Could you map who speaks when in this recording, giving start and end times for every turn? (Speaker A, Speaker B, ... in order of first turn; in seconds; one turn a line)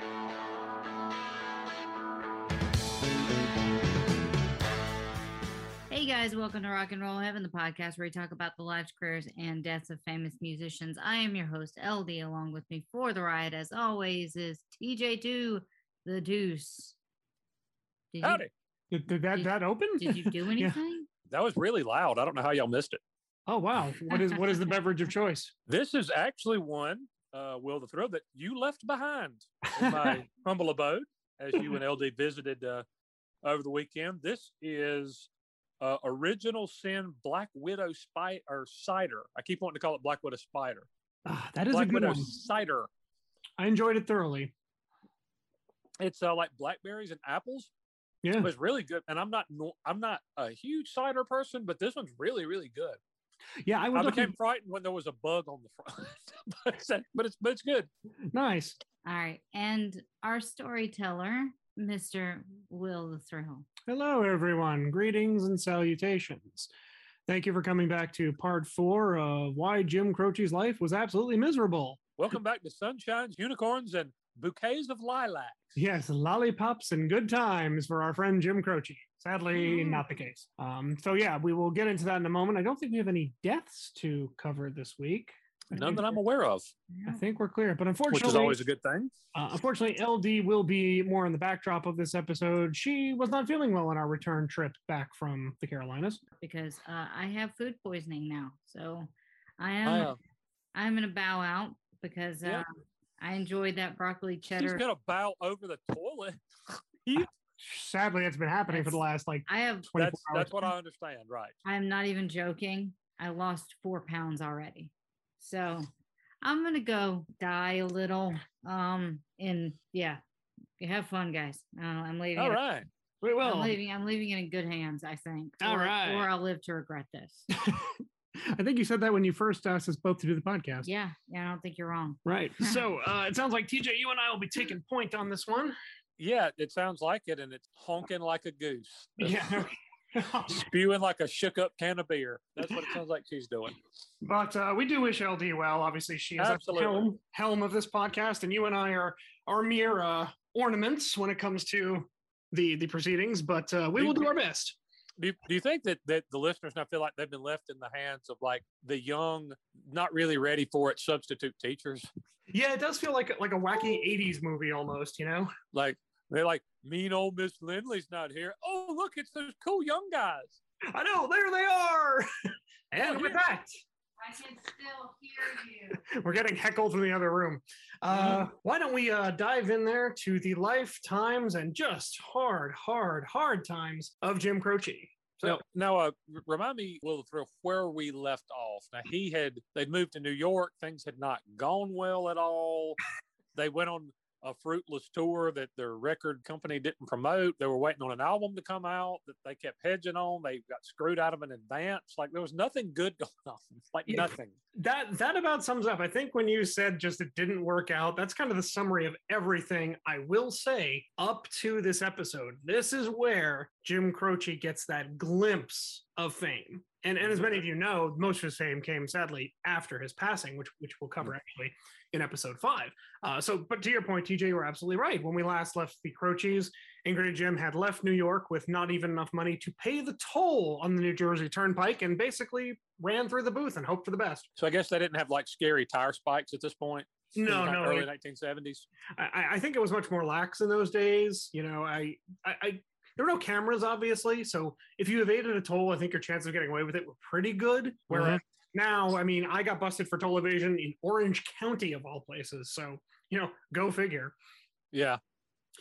Speaker A: 5.9-17.0
Speaker A: 18.1-18.4
Speaker B: 18.2-18.5
Speaker C: 18.9-20.8
Speaker A: 19.3-21.1
Speaker B: 21.3-23.0
Speaker C: 23.5-25.5
Speaker B: 25.7-32.8
Speaker C: 29.7-30.1
Speaker B: 33.4-35.3
Speaker B: 35.8-40.9
Speaker C: 41.2-42.3
Speaker B: 41.7-42.9
Speaker C: 43.6-44.5
Speaker B: 46.0-47.7
Speaker C: 48.2-48.5
Speaker B: 48.4-53.0
Speaker C: 53.6-54.3
Speaker B: 53.9-57.9
Speaker C: 58.3-58.8
Speaker A: 59.0-63.7
Speaker C: 63.9-66.7
Speaker C: 67.3-72.0
Speaker B: 72.2-75.8
Speaker C: 75.8-86.1
Speaker A: 79.5-80.0
Speaker B: 85.7-86.7
Speaker C: 87.0-88.6
Speaker B: 88.1-89.1
Speaker C: 89.3-96.2
Speaker A: 96.4-100.2
Speaker B: 99.8-100.2
Speaker A: 100.7-102.7
Speaker A: 103.2-104.8
Speaker B: 104.5-106.4
Speaker C: 107.1-110.7
Speaker A: 108.7-109.9
Speaker B: 110.0-111.6
Speaker A: 111.6-115.9
Speaker A: 116.4-120.2
Speaker A: 120.8-122.6
Speaker B: 122.3-122.9
Speaker C: 123.2-123.8
Speaker A: 123.4-127.5
Speaker C: 125.6-126.3
Speaker C: 127.6-130.9
Speaker A: 130.8-132.8
Speaker C: 132.2-135.8
Speaker B: 136.2-139.7
Speaker C: 139.2-140.7
Speaker B: 140.5-143.8
Speaker C: 144.2-154.8
Speaker B: 146.4-147.1
Speaker B: 154.0-154.4
Speaker B: 155.2-162.1
Speaker C: 162.5-165.5
Speaker B: 165.7-170.6
Speaker C: 170.8-172.3
Speaker C: 172.9-173.7
Speaker B: 173.0-173.4
Speaker A: 174.2-176.0
Speaker C: 176.0-185.6
Speaker B: 178.1-178.5
Speaker B: 185.4-193.0
Speaker B: 193.5-204.6
Speaker C: 204.1-234.5
Speaker B: 217.2-217.6
Speaker B: 234.6-238.9
Speaker C: 237.3-238.1
Speaker C: 239.2-254.3
Speaker B: 248.1-248.4
Speaker B: 254.9-255.2